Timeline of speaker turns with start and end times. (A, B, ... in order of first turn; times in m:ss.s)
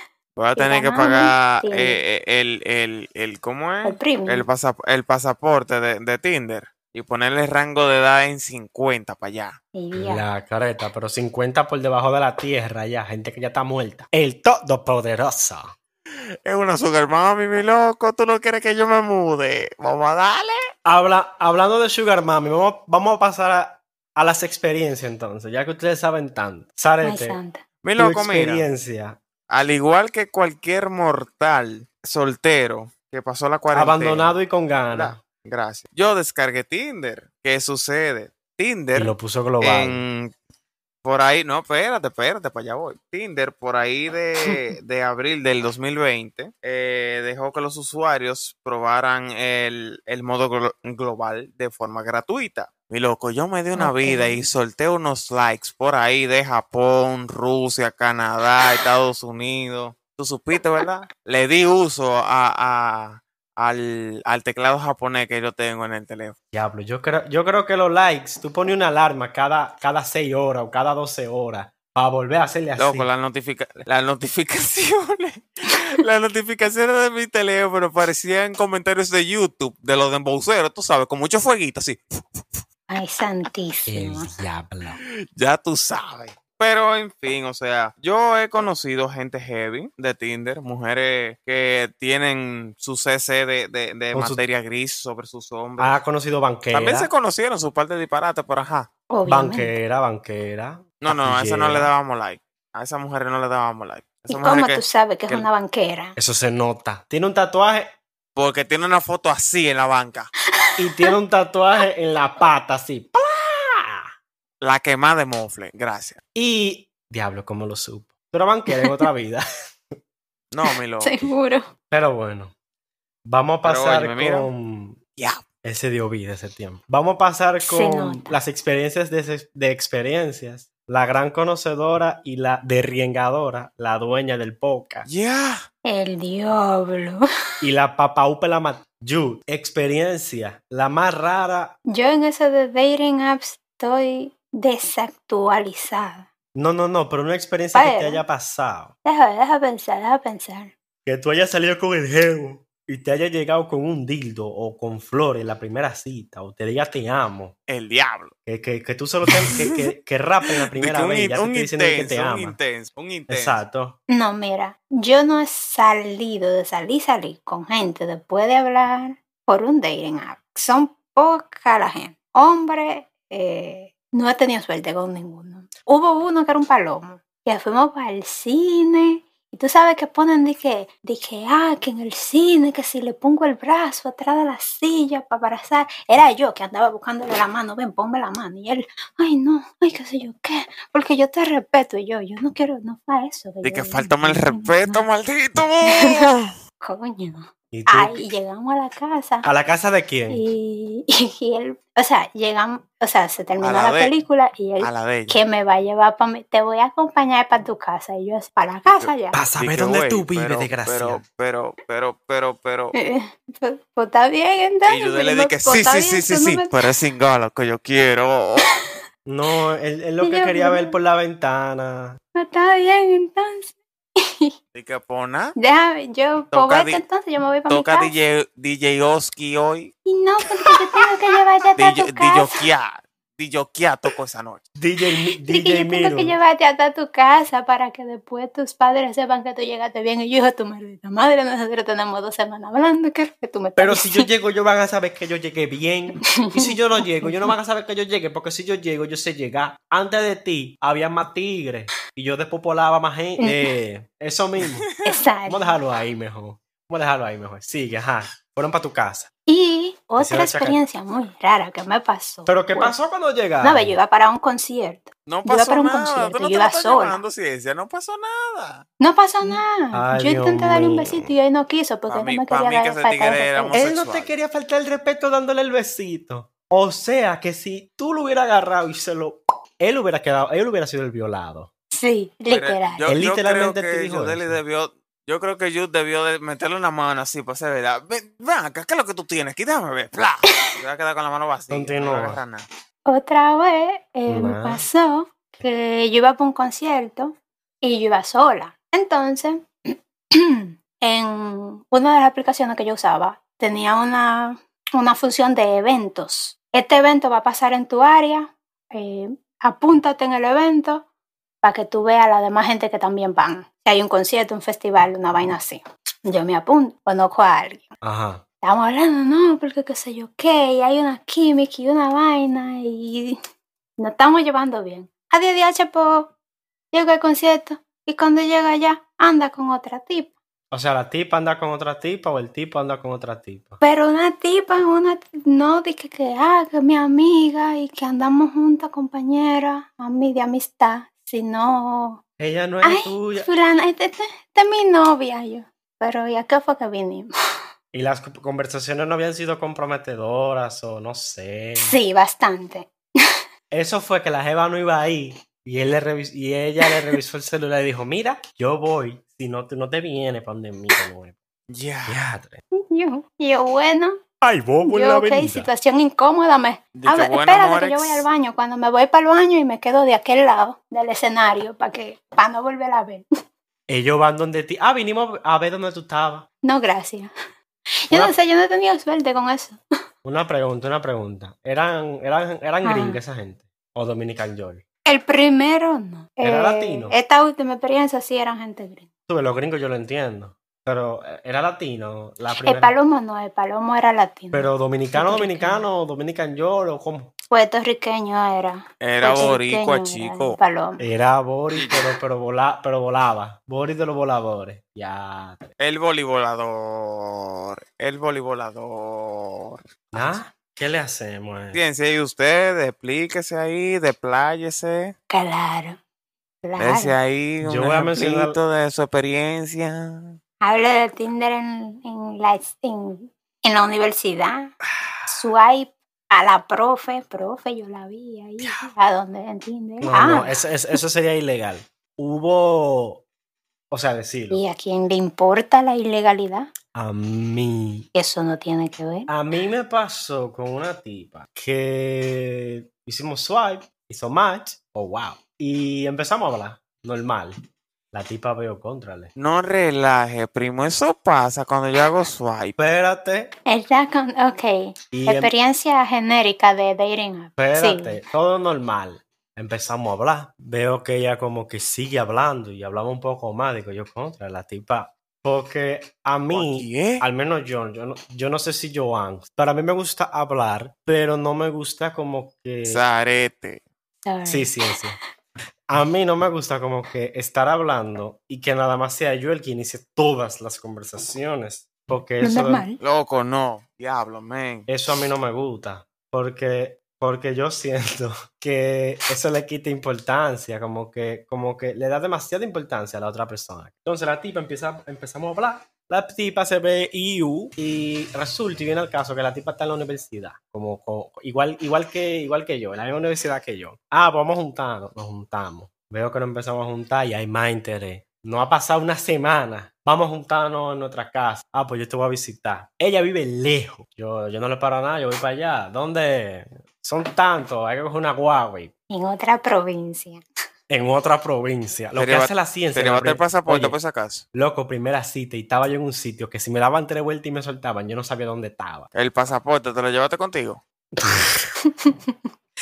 0:00.4-0:09.6 A
0:00.6-0:02.0 B
0:03.8-0:04.5 B
0:09.7-0:10.2 B
0:09.9-0:15.8 C
0:16.4-0:20.6 A
0:20.8-0:27.4 C
0:27.0-0:27.6 B
0:27.8-0:28.7 A
0:28.0-0:29.2 C
0:29.5-0:34.4 A
0:33.7-0:35.2 C
0:34.9-0:40.3 A
0:38.9-0:40.0 C
0:41.0-1:06.4 A
0:53.8-0:54.4 B
1:06.5-1:13.1 C
1:12.8-1:22.6 A
1:22.9-1:24.3 B
1:23.9-1:25.0 C
1:25.0-1:36.0 A
1:34.1-1:34.4 C
1:35.8-1:37.1 C
1:36.7-1:38.9 A
1:39.1-1:39.8 B
1:39.3-1:41.9 C
1:41.0-1:45.5 A
1:44.3-1:46.2 B
1:46.2-1:47.9 C
1:48.4-1:50.3 A
1:50.6-1:51.1 B
1:50.8-1:54.1 C
1:54.6-1:56.2 A
1:56.3-1:59.4 C
2:00.5-2:01.3 A
2:01.0-2:01.6 B
2:01.9-2:02.5 C
2:03.2-2:05.0 C
2:03.6-2:04.5 A
2:05.2-2:05.4 A
2:05.6-2:15.1 C
2:07.6-2:08.4 B
2:15.0-2:15.6 A
2:15.8-2:17.2 B
2:17.6-2:21.7 C
2:21.9-2:26.3 B
2:26.5-2:28.9 C
2:27.7-2:28.2 B
2:29.0-2:30.7 B
2:31.0-2:37.6 C
2:37.7-2:38.3 A
2:38.4-2:42.6 C
2:39.3-2:39.8 A
2:40.6-2:43.6 A
2:43.3-2:44.0 C
2:44.1-3:15.0 B
3:13.6-3:16.5 A
3:15.9-3:19.5 B
3:17.7-3:18.2 C
3:19.4-3:20.4 C
3:20.3-3:29.4 B
3:23.6-3:24.1 A
3:24.8-3:25.4 A
3:29.0-3:32.9 A
3:29.3-3:31.2 C
3:32.9-3:36.7 B
3:34.8-3:38.6 A
3:39.2-3:42.2 C
3:40.2-3:40.9 B
3:42.3-3:44.5 B
3:44.7-3:45.5 A
3:45.6-3:48.1 B
3:46.5-3:47.0 A
3:47.7-3:49.9 A
3:50.0-3:52.5 B
3:51.8-3:54.6 A
3:54.8-3:56.4 C
3:55.5-4:04.3 B
4:03.8-4:14.9 C
4:06.2-4:07.5 B
4:13.4-4:13.6 B
4:14.9-4:15.2 A
4:15.0-4:15.7 B
4:15.5-4:19.3 C
4:19.5-4:22.9 B
4:20.2-4:20.8 C
4:22.4-4:24.0 C
4:23.6-4:27.2 B
4:25.3-4:28.8 A
4:29.0-4:33.8 B
4:29.4-4:31.3 C
4:32.1-4:34.3 A
4:33.7-4:41.7 C
4:41.9-4:43.1 B
4:42.5-4:52.6 A
4:43.1-4:44.6 C
4:51.7-4:52.4 C
4:53.0-5:11.0 B
4:54.3-4:54.8 C
5:11.6-5:17.9 B
5:18.0-5:18.4 C
5:18.6-5:23.4 B
5:24.0-5:26.3 B
5:26.9-5:30.3 B
5:30.7-5:33.8 C
5:33.8-5:42.2 B
5:42.4-5:43.5 C
5:42.8-5:47.3 B
5:47.9-5:52.0 C
5:51.8-5:53.4 B
5:53.7-6:01.4 C
6:01.7-6:02.2 A
6:02.0-6:02.6 C
6:02.7-6:04.2 B
6:04.4-6:05.7 C
6:04.8-6:13.2 B
6:07.0-6:08.2 A
6:13.9-6:16.5 C
6:16.6-6:17.3 B
6:18.1-6:19.8 B
6:18.1-6:18.3 C
6:20.2-6:24.8 C
6:22.8-6:23.2 B
6:25.0-6:29.0 B
6:26.4-6:27.2 C
6:29.3-6:32.9 C
6:32.6-6:35.8 B
6:34.5-6:37.3 C
6:37.5-6:41.0 B
6:39.0-6:40.6 A
6:41.0-6:45.6 C
6:41.7-6:42.1 A
6:45.8-6:50.4 A
6:50.1-6:51.8 C
6:51.7-6:55.1 A
6:55.3-6:56.0 B
6:56.6-6:57.2 B
6:56.8-7:00.4 A
6:57.6-6:58.6 C
7:00.6-7:04.7 B
7:05.3-7:10.6 B
7:10.0-7:13.2 C
7:13.9-7:14.6 C
7:14.5-7:16.7 B
7:16.9-7:18.1 C
7:18.1-7:19.3 B
7:19.3-7:27.5 C
7:28.1-7:29.3 C
7:29.4-7:32.7 A
7:32.8-7:33.5 C
7:33.6-7:38.2 B
7:35.1-7:35.5 C
7:37.6-7:53.0 C
7:46.5-7:47.2 A
7:52.8-7:53.8 A
7:54.2-7:54.8 B
7:54.4-7:55.2 C
7:55.9-8:02.8 C
8:02.4-8:03.0 B
8:03.0-8:04.9 A
8:04.9-8:38.9 C
8:39.1-8:40.4 B
8:40.9-8:44.0 C
8:42.1-8:44.4 A
8:44.5-8:49.1 C
8:49.1-8:50.8 A
8:51.2-8:51.7 C
8:51.8-8:52.3 B